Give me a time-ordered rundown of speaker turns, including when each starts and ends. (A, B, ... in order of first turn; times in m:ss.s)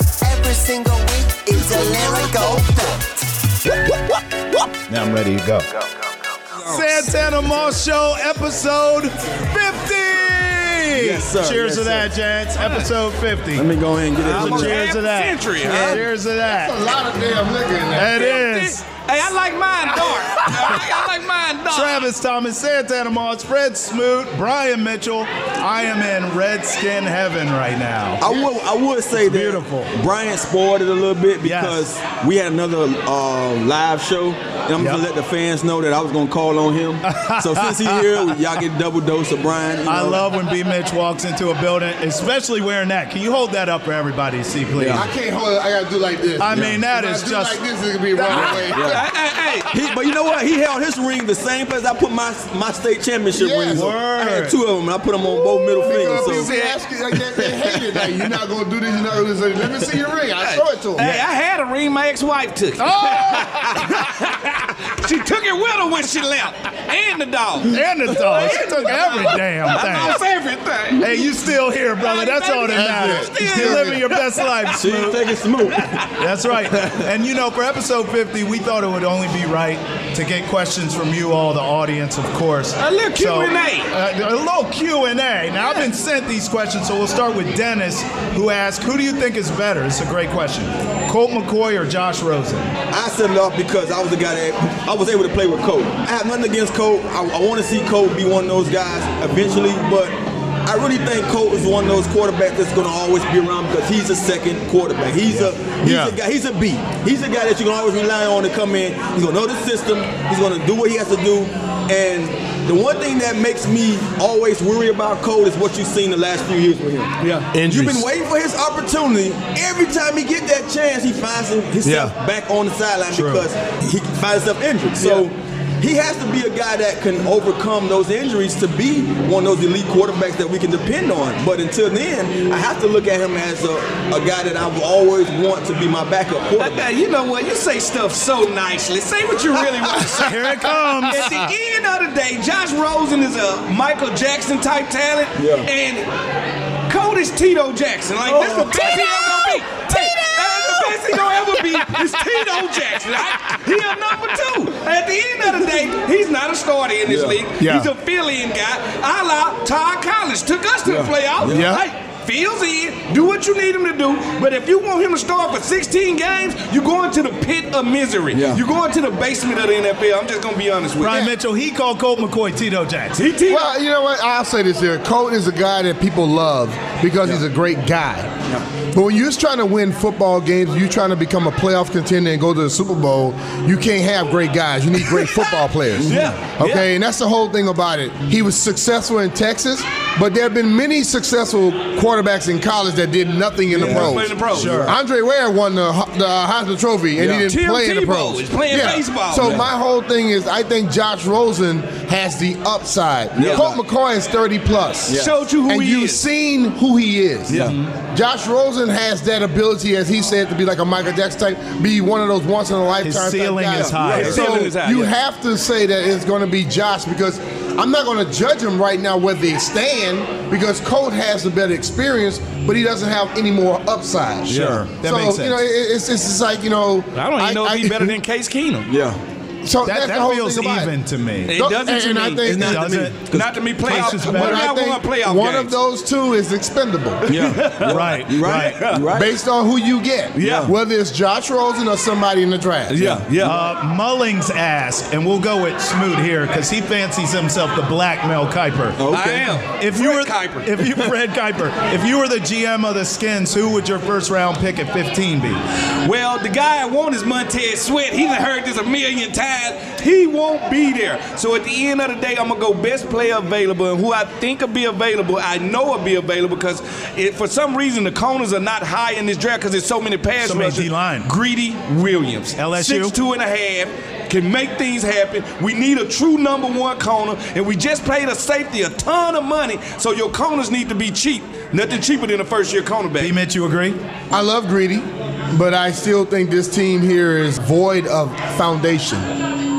0:00.2-0:03.2 A
0:04.9-0:05.6 B
0:06.5-0:07.1 C
0:06.7-0:13.7 B
0:10.9-0:12.1 D
0:12.6-0:12.9 C
0:13.5-0:14.8 D
0:14.2-0:16.0 C
0:14.2-0:16.7 B
0:15.7-0:18.3 E
0:17.9-0:18.8 B
0:18.1-0:22.1 C
0:21.7-0:28.4 B
0:28.2-0:40.2 D
0:29.2-0:29.9 B
0:31.4-0:31.8 B
0:37.0-0:38.3 B
0:39.8-0:45.1 B
0:44.8-0:45.1 D
0:44.9-0:49.0 E
0:46.4-0:47.6 B
0:46.5-0:46.8 D
0:48.1-0:48.6 B
0:48.3-0:49.0 D
0:48.8-0:49.7 C
0:49.7-0:56.5 D
0:53.3-0:53.8 E
0:53.7-0:54.6 B
0:55.7-1:01.1 E
0:56.2-0:56.8 C
0:57.3-0:57.7 C
1:00.4-1:11.3 C
1:02.8-1:04.1 B
1:07.7-1:10.2 B
1:11.0-1:15.2 B
1:11.9-1:14.8 C
1:12.7-1:14.0 E
1:14.7-1:16.0 D
1:15.7-1:16.1 C
1:16.1-1:32.7 B
1:22.8-1:23.9 C
1:32.9-1:57.1 D
1:45.3-1:45.5 B
1:45.8-1:46.2 E
1:57.2-1:57.5 C
1:57.5-1:58.1 E
1:57.6-2:16.8 D
2:01.8-2:02.1 E
2:03.1-2:03.4 B
2:05.0-2:05.2 C
2:16.6-2:26.1 C
2:20.1-2:21.3 B
2:25.4-2:25.7 D
2:26.9-2:51.3 C
2:28.2-2:30.6 D
2:37.0-2:37.4 D
2:37.6-2:37.9 E
2:40.8-2:41.7 D
2:41.4-2:41.9 E
2:48.3-2:48.6 D
2:51.0-2:53.2 B
2:53.1-2:53.7 C
2:53.5-2:58.3 E
2:58.9-3:48.2 E
3:06.0-3:06.3 D
3:06.0-3:06.8 C
3:13.7-3:14.9 D
3:13.8-3:15.0 B
3:13.8-3:14.8 C
3:17.2-3:17.5 D
3:17.3-3:19.6 C
3:23.3-3:23.8 D
3:23.4-3:23.7 C
3:25.1-3:25.3 D
3:25.1-3:26.2 C
3:27.5-3:27.7 D
3:27.5-3:27.8 C
3:27.5-3:27.9 B
3:33.0-3:34.4 B
3:33.7-3:34.3 D
3:34.0-3:35.1 C
3:44.5-3:44.8 C
3:44.5-3:45.6 B
3:47.1-3:48.9 C
3:48.9-3:49.2 D
3:49.6-3:50.9 E
3:49.8-3:51.5 B
3:51.4-3:52.5 C
3:51.5-3:52.9 E
3:52.4-3:54.1 D
3:52.5-3:53.2 B
3:53.3-3:55.7 C
3:53.8-3:54.7 B
3:53.9-3:57.3 E
3:57.2-3:59.0 C
3:57.3-3:59.3 D
3:57.8-3:58.8 B
3:59.1-4:03.1 E
4:00.3-4:00.7 C
4:00.4-4:00.7 D
4:02.9-4:03.6 C
4:03.0-4:03.6 D
4:03.4-4:09.0 B
4:09.0-4:09.6 D
4:09.1-4:11.0 C
4:09.8-4:15.6 B
4:16.0-4:43.4 C
4:30.4-4:31.3 B
4:32.6-4:33.1 B
4:43.2-4:44.0 B
4:44.3-4:49.3 E